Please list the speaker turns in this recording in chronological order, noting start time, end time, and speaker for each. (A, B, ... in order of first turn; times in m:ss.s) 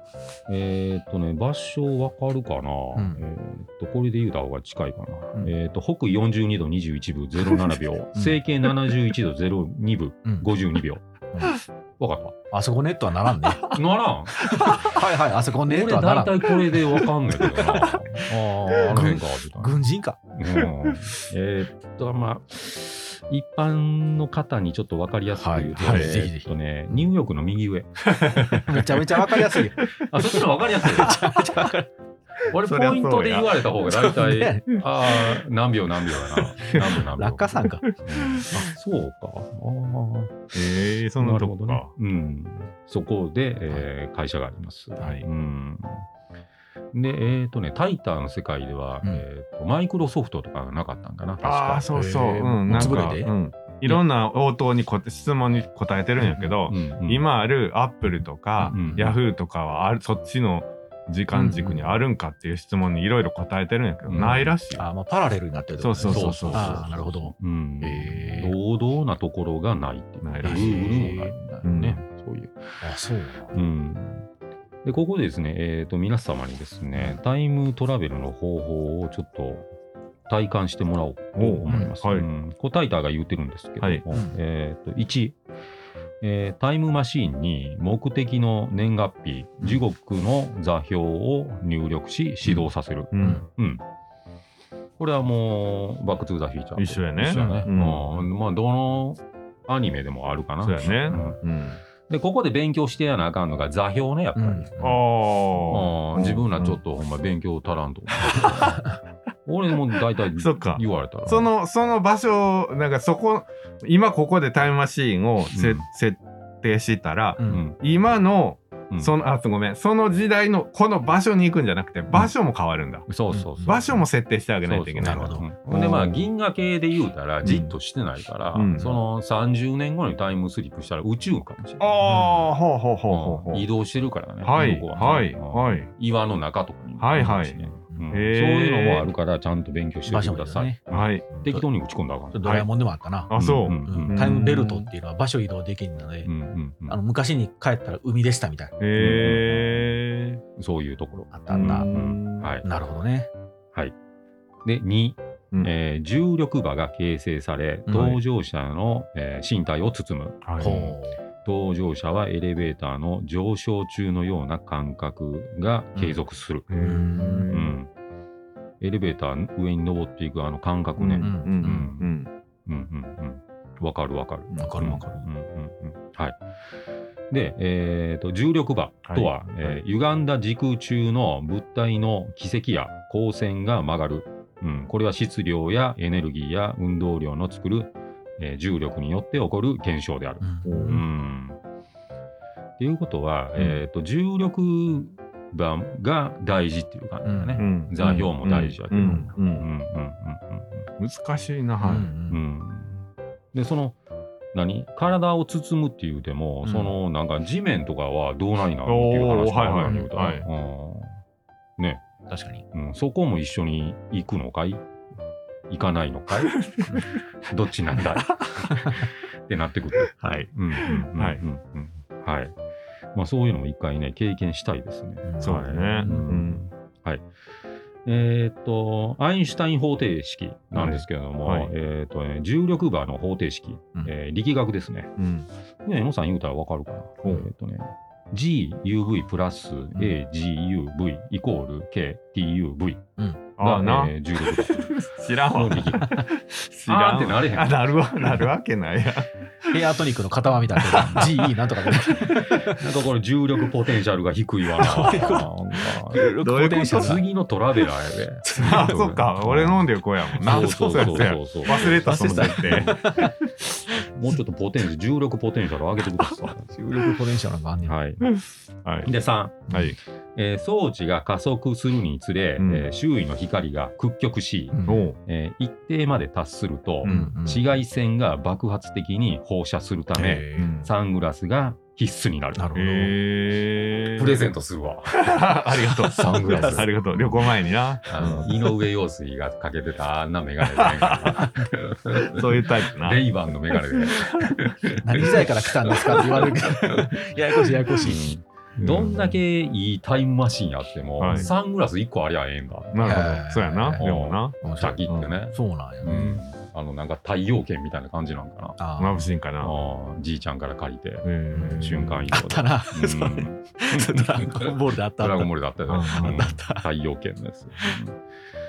0:00.5-0:11.0 A
0:02.9-0:03.2 B
0:08.1-0:08.4 B
0:12.0-0:12.4 A
0:12.5-0:13.7 B
0:13.6-0:14.8 A
0:14.4-0:16.8 B
0:15.6-0:19.8 A
0:17.4-0:20.2 B
0:20.3-0:28.9 A
0:25.3-0:27.0 B
0:25.8-0:26.1 C
0:28.1-0:28.4 C
0:28.5-0:31.9 B
0:29.8-0:31.4 A
0:32.5-0:40.5 A
0:32.7-0:33.6 C
0:33.9-0:34.7 B
0:36.3-0:37.9 B
0:38.4-0:38.7 B
0:40.5-0:41.9 C
0:41.2-0:46.0 A
0:45.0-0:45.2 C
0:46.9-0:51.9 A
0:51.4-1:04.8 C
0:51.9-0:53.3 B
0:52.7-0:53.1 A
0:56.2-0:56.5 B
0:56.6-0:57.2 A
0:58.6-0:59.2 A
0:58.6-0:59.1 B
1:01.3-1:02.0 B
1:04.0-1:04.5 A
1:04.2-1:08.5 B
1:05.8-1:06.9 C
1:06.0-1:12.8 A
1:10.2-1:11.1 C
1:10.4-1:11.4 B
1:11.6-1:12.0 C
1:12.8-1:13.6 B
1:13.5-1:14.3 A
1:14.8-1:19.6 A
1:20.3-1:25.4 A
1:21.4-1:22.3 C
1:21.7-1:22.0 B
1:26.2-1:33.8 A
1:32.4-1:33.4 C
1:35.0-1:41.4 A
1:36.8-1:38.1 C
1:40.6-1:41.8 C
1:42.1-1:45.0 A
1:44.4-1:44.9 B
1:44.8-1:46.8 C
1:45.6-1:48.9 A
1:48.6-1:48.9 B
1:49.4-1:51.5 A
1:50.4-2:03.1 C
1:55.5-1:55.8 A
1:57.4-1:57.6 B
1:57.5-1:57.8 A
2:03.1-2:03.9 A
2:03.3-2:03.8 B
2:03.6-2:06.2 C
2:04.6-2:11.8 A
2:05.0-2:05.4 B
2:07.4-2:07.7 C
2:08.5-2:08.9 C
2:11.8-2:13.7 C
2:12.0-2:12.4 B
2:13.1-2:22.5 A
2:14.4-2:15.9 C
2:17.0-2:17.6 C
2:17.2-2:18.2 B
2:18.1-2:19.1 C
2:20.1-2:21.6 B
2:20.9-2:21.3 C
2:22.3-2:26.3 B
2:23.3-2:24.9 C
2:23.4-2:24.3 A
2:26.2-2:27.0 A
2:26.8-2:28.8 B
2:28.8-2:30.4 C
2:29.0-2:30.0 A
2:30.6-2:32.6 A
2:31.3-2:31.9 B
2:31.5-2:32.5 C
2:32.6-2:33.3 B
2:34.6-2:40.8 A
2:37.9-2:38.2 B
2:40.4-2:40.9 C
2:40.6-2:41.2 B
2:41.4-2:46.7 A
2:46.7-2:47.7 C
2:46.8-2:47.6 B
2:47.5-2:47.9 A
2:48.8-2:52.1 A
2:51.0-2:52.3 C
2:51.2-2:51.9 B
2:52.6-2:56.4 A
2:54.5-2:55.3 B
2:57.3-3:11.6 A
2:59.0-2:59.3 C
3:10.4-3:11.0 B
3:10.6-3:11.0 C
3:12.8-3:20.9 A
3:17.2-3:18.2 B
3:17.6-3:19.6 C
3:21.0-3:22.1 C
3:21.8-3:22.4 B
3:21.9-3:24.0 A
3:24.5-3:31.2 A
3:26.6-3:26.9 B
3:28.8-3:30.5 C
3:31.8-3:32.0 A
3:32.3-3:32.6 B
3:32.7-3:34.8 A
3:35.7-3:36.6 A
3:36.5-3:36.9 C
3:37.5-3:42.5 A
3:38.7-3:39.0 B
3:40.2-3:41.4 C
3:43.1-3:47.2 A
3:45.2-3:46.4 B
3:45.4-3:46.6 C
3:48.0-3:55.1 A
3:50.7-3:51.7 C
3:55.2-3:55.5 C
3:55.8-4:03.0 A
4:03.6-4:06.2 A
4:03.6-4:09.3 C
4:06.9-4:07.9 A
4:09.7-4:12.8 B
4:10.9-4:11.3 C
4:12.3-4:19.8 A
4:14.7-4:17.2 B
4:16.4-4:17.0 C
4:18.4-4:19.0 B
4:18.6-4:23.3 C
4:20.4-4:23.4 B
4:20.4-4:23.2 A
4:24.1-4:26.8 A
4:26.7-4:28.0 B
4:27.8-4:28.3 A
4:28.3-4:29.1 C
4:29.0-4:29.7 A
4:29.7-4:30.0 C
4:30.3-4:42.7 A
4:32.6-4:32.9 C
4:34.7-4:35.1 B
4:34.9-4:35.2 C
4:37.0-4:37.3 C
4:37.0-4:37.6 B
4:40.1-4:40.8 B
4:40.6-4:40.9 C
4:42.6-4:43.1 B
4:42.8-4:44.4 C
4:44.2-4:46.9 A
4:45.2-4:48.5 C
4:46.2-4:46.9 B
4:48.1-4:57.2 A
4:50.7-4:51.5 C
4:51.4-4:51.7 B
4:52.1-4:53.2 C
4:54.1-4:54.6 C
4:55.0-4:58.3 B
4:57.7-5:03.1 A
4:58.8-4:59.3 C
5:01.2-5:01.5 C
5:02.9-5:04.6 C
5:03.0-5:04.0 B
5:04.0-5:08.8 A
5:04.6-5:06.4 B
5:06.0-5:06.4 C
5:08.8-5:09.3 B
5:09.0-5:09.7 C
5:09.6-5:18.2 A
5:11.2-5:12.3 C
5:11.5-5:15.5 B
5:15.9-5:16.5 C
5:16.0-5:16.8 B